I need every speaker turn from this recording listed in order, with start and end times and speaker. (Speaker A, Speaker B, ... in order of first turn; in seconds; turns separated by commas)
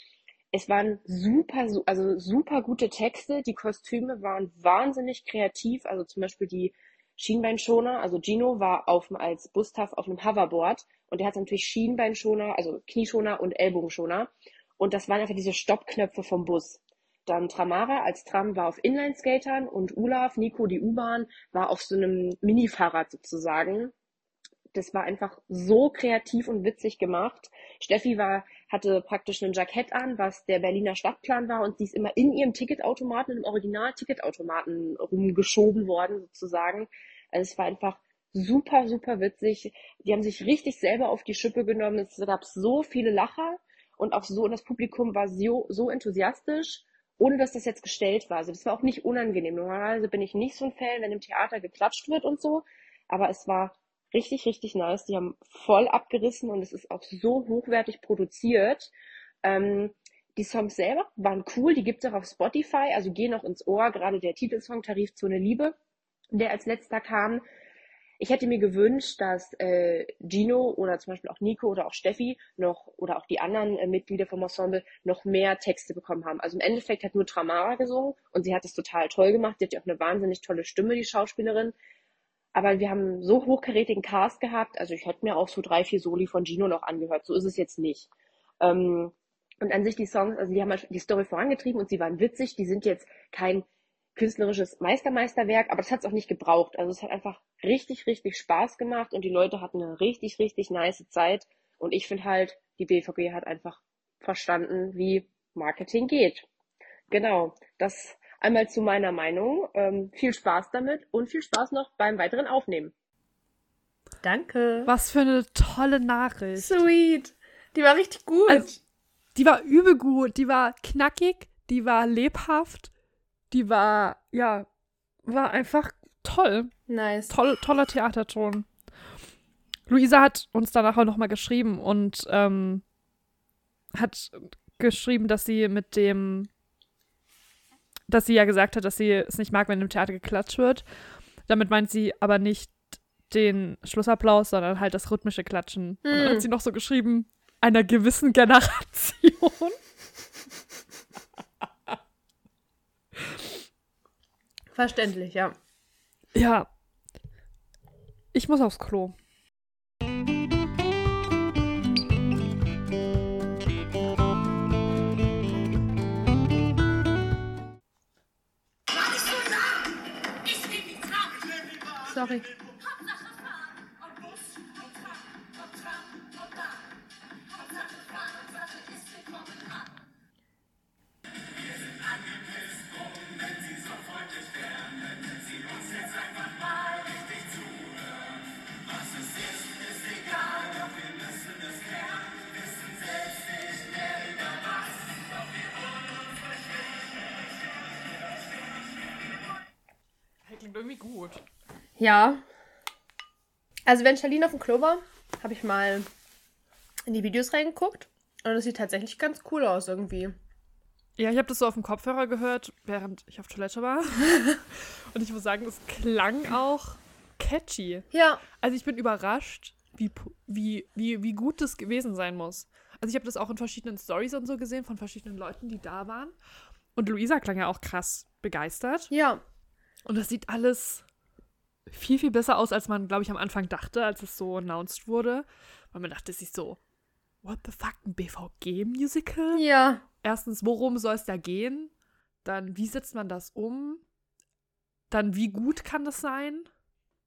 Speaker A: 0.5-23.9, Speaker A: 24.7-58.9, Speaker A: 59.4-65.8, Speaker A: 66.3-67.5, Speaker A: 68.2-81.7, Speaker A: 82.5-88.1, Speaker A: 88.6-106.5, Speaker A: 107.1-112.9, Speaker B: 114.2-114.9, Speaker C: 114.9-116.8, Speaker B: 116.6-118.8, Speaker C: 119.3-122.9, Speaker C: 123.5-124.7, Speaker C: 125.2-126.7, Speaker B: 126.9-127.3, Speaker C: 127.3-128.7, Speaker C: 129.9-132.8, Speaker C: 133.9-136.5, Speaker C: 138.1-140.8, Speaker C: 141.5-142.8, Speaker C: 143.3-149.8, Speaker B: 146.1-146.5, Speaker B: 154.7-155.6, Speaker C: 156.3-156.7, Speaker C: 158.3-159.2, Speaker B: 172.0-172.5, Speaker C: 200.4-201.4, Speaker B: 202.0-202.4, Speaker B: 203.9-206.1, Speaker B: 207.1-210.3, Speaker C: 211.2-218.1, Speaker B: 218.1-218.4, Speaker C: 218.6-226.3, Speaker C: 227.0-229.1, Speaker B: 229.1-229.4, Speaker C: 230.1-231.0, Speaker C: 231.9-236.8, Speaker C: 237.4-239.7, Speaker B: 239.6-240.0, Speaker C: 240.2-241.9, Speaker C: 242.4-244.0, Speaker C: 245.1-246.7